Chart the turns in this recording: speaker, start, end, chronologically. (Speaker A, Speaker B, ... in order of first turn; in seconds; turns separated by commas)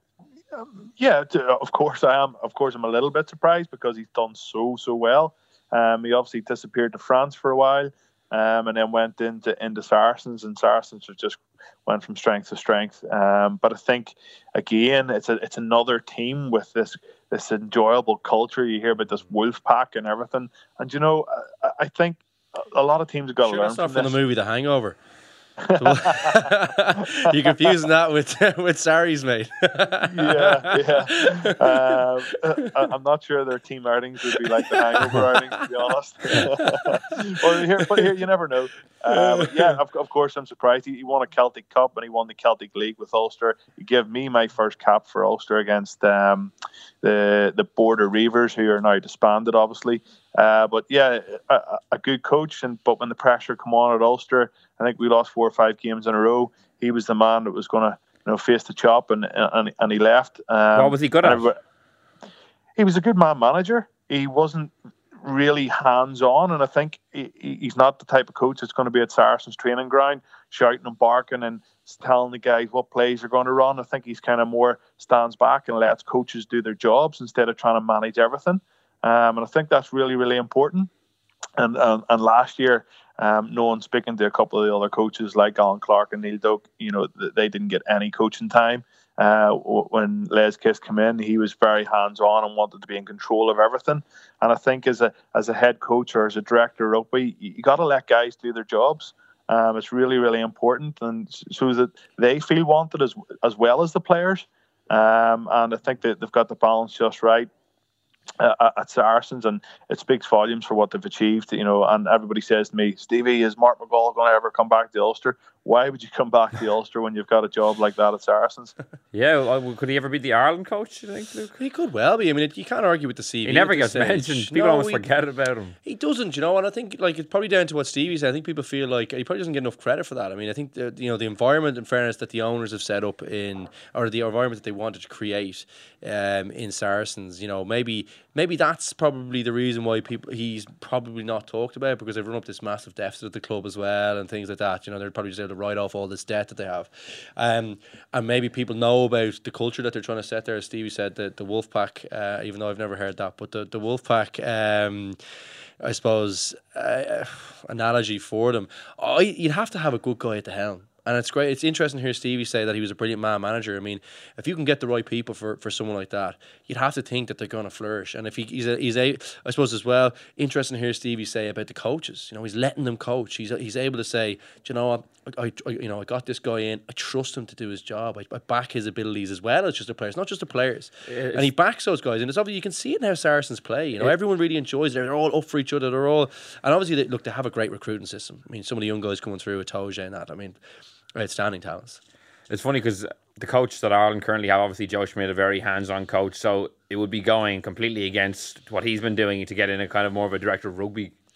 Speaker A: 0.5-24.2, Speaker B: 23.4-25.0, Speaker A: 25.6-26.5, Speaker B: 25.8-32.0, Speaker A: 30.1-61.6, Speaker B: 34.3-35.6, Speaker B: 36.3-38.0, Speaker B: 39.1-39.8, Speaker C: 60.7-61.5, Speaker A: 62.8-80.9, Speaker A: 81.6-107.5, Speaker A: 108.4-118.7, Speaker C: 119.1-121.5, Speaker B: 121.6-125.0, Speaker C: 123.4-125.8, Speaker B: 125.8-155.2, Speaker B: 155.8-190.6, Speaker C: 181.1-181.5, Speaker B: 191.2-192.0, Speaker C: 192.5-201.2